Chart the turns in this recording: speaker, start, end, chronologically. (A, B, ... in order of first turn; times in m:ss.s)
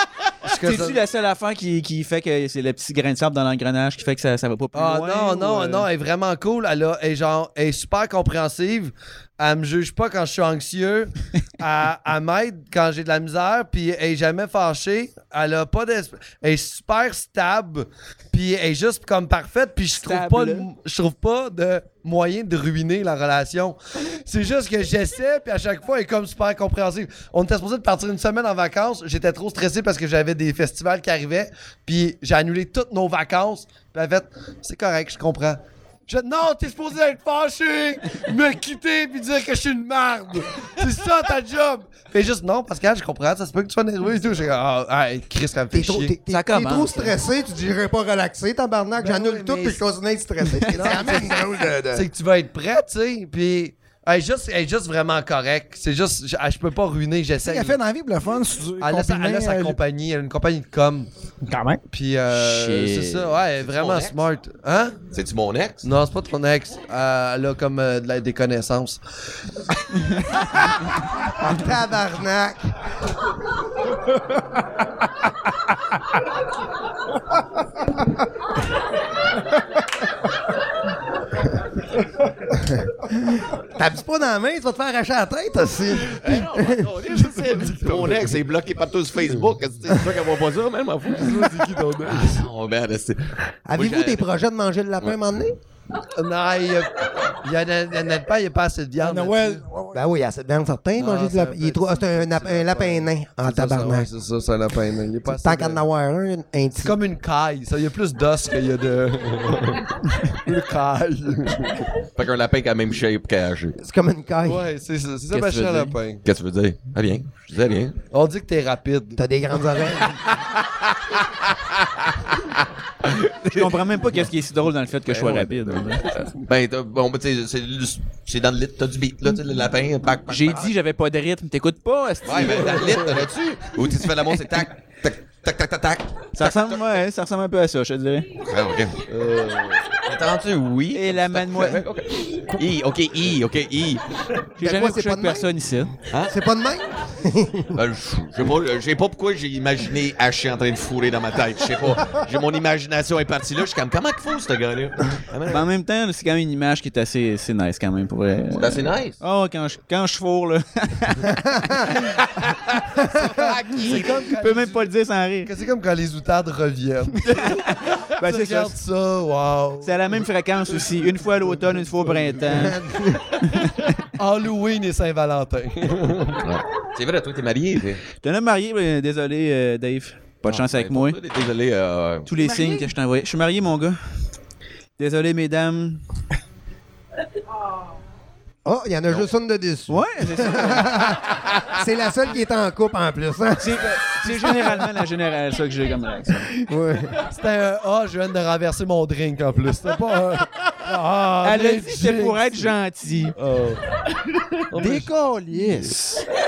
0:00.4-0:01.0 A
0:00.5-0:05.8 B
0:04.7-0:46.2 A
0:19.9-0:20.7 B
0:45.7-0:52.0 C
0:46.3-0:47.2 B
0:49.0-0:49.8 A
0:50.7-0:51.4 A
0:50.8-0:51.7 D
0:51.9-0:57.8 A
0:57.4-0:59.8 D
0:58.8-1:01.1 A
1:01.4-1:01.8 D
1:01.9-1:05.0 A
1:02.3-1:03.4 B
1:03.6-1:04.2 E
1:05.1-1:05.8 E
1:05.8-1:09.0 A
1:11.4-1:12.7 C
1:23.1-1:26.9 C
1:26.0-1:34.3 E
1:27.0-1:28.4 A
1:31.1-1:32.5 A
1:33.7-1:35.6 C
1:36.0-1:39.6 A
1:39.0-1:40.0 D
1:39.9-1:44.1 C
1:41.0-1:45.8 A
1:45.3-1:47.0 C
1:46.7-1:51.9 A
1:52.2-1:53.8 E
1:53.8-1:54.6 C
1:54.4-1:56.2 A
1:55.3-1:55.9 B
1:56.2-1:58.0 E
1:58.1-1:59.3 A
1:59.2-2:00.2 C
2:00.3-2:02.5 E
2:03.0-2:03.6 E
2:03.4-2:06.1 B
2:06.3-2:10.7 E
2:10.3-2:13.1 B
2:12.2-2:16.8 E
2:12.7-2:13.2 A
2:16.4-2:18.3 B
2:18.4-2:19.1 E
2:19.1-2:19.9 A
2:19.9-2:24.0 E
2:20.9-2:21.8 B
2:24.6-2:25.9 B
2:24.6-2:25.5 C
2:26.3-2:27.8 C
2:27.7-2:35.7 E
2:35.5-2:42.2 B
2:38.6-2:39.2 E
2:41.7-2:41.9 C
2:43.0-2:43.3 C
2:43.0-2:44.2 E
2:43.1-2:44.9 A
2:43.9-2:45.5 B
2:45.4-2:50.2 A
2:47.3-2:48.7 B
2:49.8-2:52.8 B
2:51.3-2:52.6 A
2:52.5-2:53.3 C
2:53.4-2:53.9 B
2:54.1-2:56.5 A
2:56.2-2:58.0 E
2:58.2-3:01.2 B
3:00.4-3:02.3 E
3:02.2-3:04.0 B
3:02.4-3:02.8 C
3:05.0-3:06.0 B
3:08.6-3:14.5 C
3:09.9-3:11.0 B
3:13.6-3:16.6 B
3:16.6-3:17.2 C
3:17.2-3:22.7 A
3:21.4-3:23.4 B
3:23.3-3:24.0 A
3:24.7-3:25.1 A
3:24.7-3:26.3 B